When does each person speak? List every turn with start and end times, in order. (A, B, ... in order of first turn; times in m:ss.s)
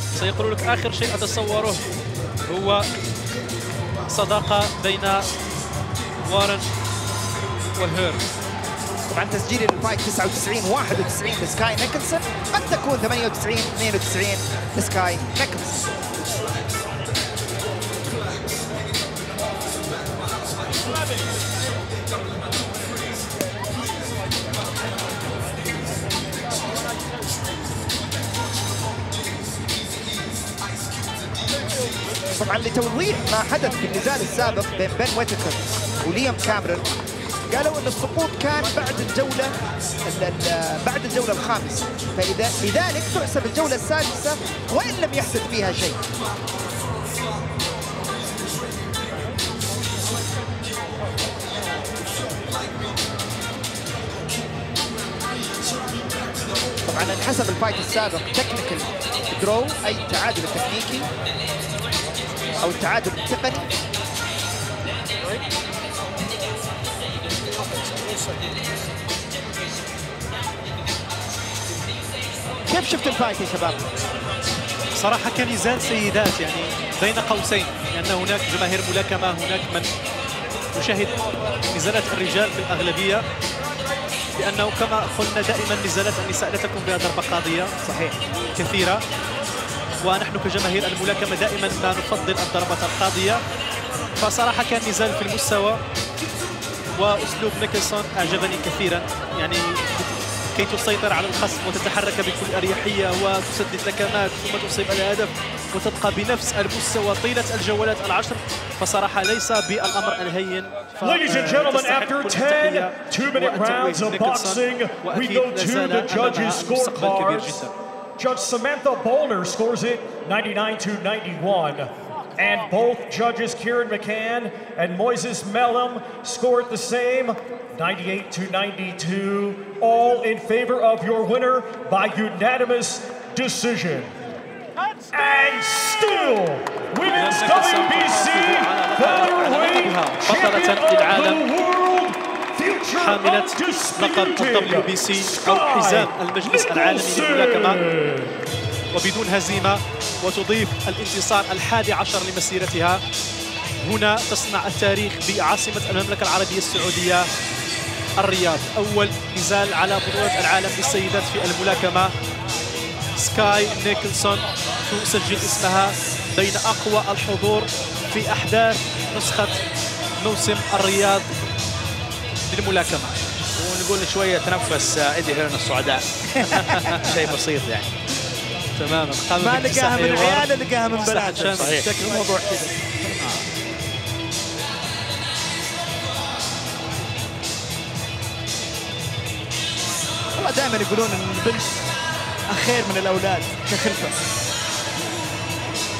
0:00.2-0:01.8 A
0:02.5-0:02.8 A
0:04.1-0:05.3 A
0:06.2-0:06.6 A
0:07.8-0:08.2 A
0:09.1-0:15.9 B
0:32.4-0:36.9 B
0:37.5-0:39.5 B
0:40.0-0:46.0 B
0:56.8-1:01.1 B
1:02.6-1:03.7 B
1:12.7-1:13.8 B
1:15.0-1:19.9 A
1:20.7-1:21.2 A
1:21.7-1:23.2 A
1:24.4-1:27.7 A
1:27.8-1:28.2 B
1:28.6-1:29.0 A
1:30.0-1:33.4 A
1:34.2-1:35.8 A
1:37.0-1:57.7 A
1:51.0-1:57.7 C
1:58.2-2:14.1 C
2:15.1-2:28.4 C
2:17.1-2:21.4 A
2:22.9-2:27.8 A
2:28.9-2:33.0 A
2:33.8-2:37.3 A
2:38.2-2:42.1 A
2:43.2-2:49.6 A
2:50.2-2:51.4 A
2:52.5-2:53.1 A
2:53.6-2:56.0 D
2:56.3-2:57.1 B
2:56.5-2:57.0 A
2:57.0-2:57.9 D
2:58.8-3:01.8 A
2:59.4-3:03.4 B
3:01.6-3:01.9 D
3:10.4-3:11.8 B
3:12.5-3:14.1 B